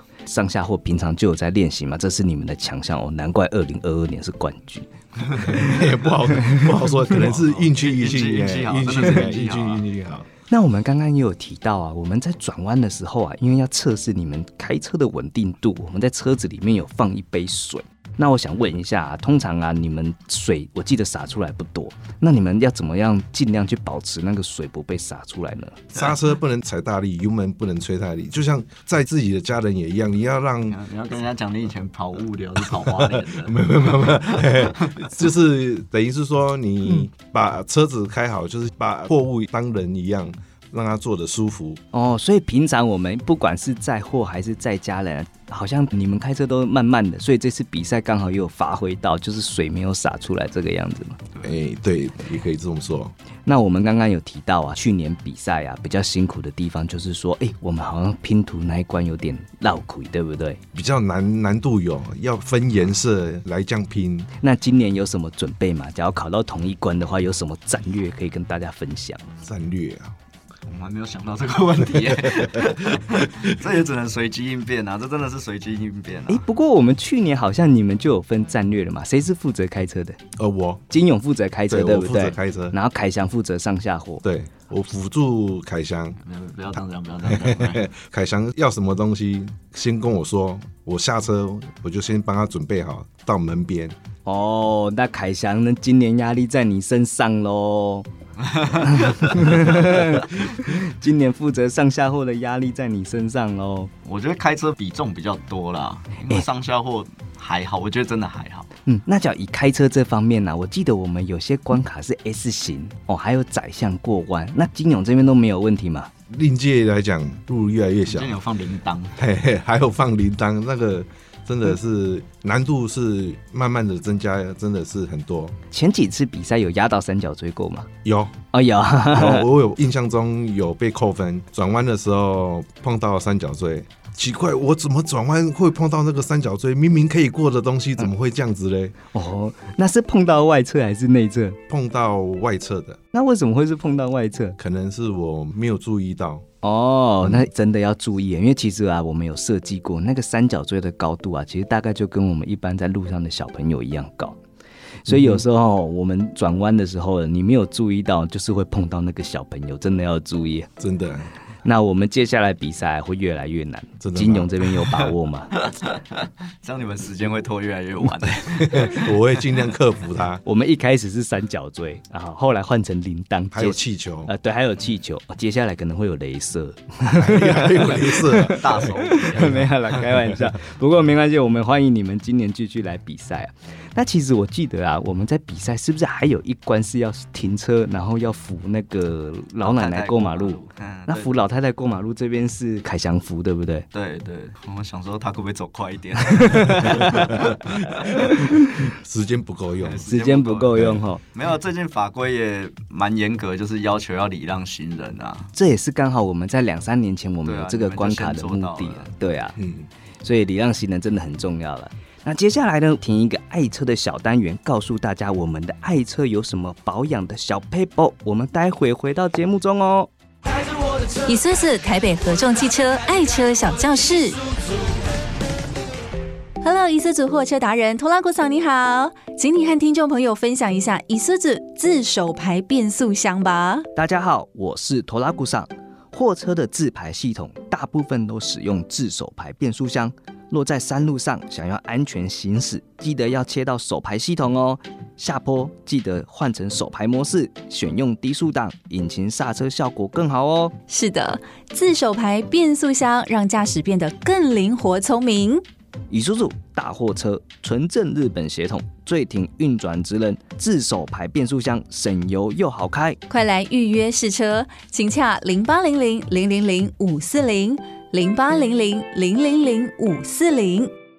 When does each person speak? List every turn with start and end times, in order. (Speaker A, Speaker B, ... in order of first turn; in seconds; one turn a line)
Speaker A: 0.2-4.9
Speaker B: 5.2-5.8
Speaker C: 5.4-10.3
Speaker B: 7.2-9.8
Speaker A: 10.5-25.8
Speaker C: 25.9-30.8
Speaker B: 30.7-35.2
Speaker C: 32.6-41.8
Speaker A: 41.9-51.2
Speaker C: 51.4-53.1
Speaker A: 53.4-60.6
Speaker C: 60.7-64.3
Speaker A: 64.4-69.2
Speaker C: 69.4-70.1
Speaker B: 70.7-76.4
Speaker A: 76.3-80.2
Speaker C: 80.4-80.8
Speaker A: 80.9-84.2
Speaker C: 81.7-82.8
Speaker C: 84.2-86.2
Speaker B: 86.2-87.8
Speaker C: 87.2-94.0
Speaker A: 94.2-98.1
Speaker B: 98.5-99.4
Speaker A: 98.6-103.9
Speaker B: 104.0-108.7
Speaker A: 108.9-116.1
Speaker C: 116.3-118.3
Speaker B: 118.1-119.2
Speaker C: 119.2-125.5
Speaker A: 125.7-127.9
Speaker C: 128.0-128.3
Speaker A: 128.5-129.5
Speaker C: 129.1-138.9
Speaker A: 139.1-141.6
Speaker C: 141.7-143.0
Speaker A: 143.1-144.6
Speaker C: 144.6-146.4
Speaker A: 146.6-154.4
Speaker C: 147.2-147.5
Speaker A: 155.0-160.7
Speaker C: 155.1-155.4
Speaker C: 160.8-161.3
Speaker A: 161.6-165.6
Speaker C: 164.0-164.5
Speaker B: 165.7-165.9
Speaker B: 166.6-169.1
Speaker C: 168.4-170.4
Speaker A: 170.4-193.8
Speaker C: 173.5-174.3
Speaker C: 177.1-178.8
Speaker B: 178.5-179.7
Speaker B: 189.6-191.3
Speaker B: 193.9-197.8
Speaker A: 196.3-197.2
Speaker C: 196.8-198.1
Speaker A: 198.0-198.8
Speaker C: 198.9-200.0
Speaker B: 199.8-205.5
Speaker A: 200.1-201.2
Speaker C: 200.7-201.0
Speaker A: 205.5-209.6
Speaker B: 207.4-209.1
Speaker C: 209.6-209.9
Speaker A: 210.2-220.1
Speaker D: 221.2-224.4
Speaker D: 226.6-233.8
Speaker A: 233.9-250.7
Speaker D: 250.9-255.6
Speaker A: 256.1-263.2
Speaker D: 263.3-270.9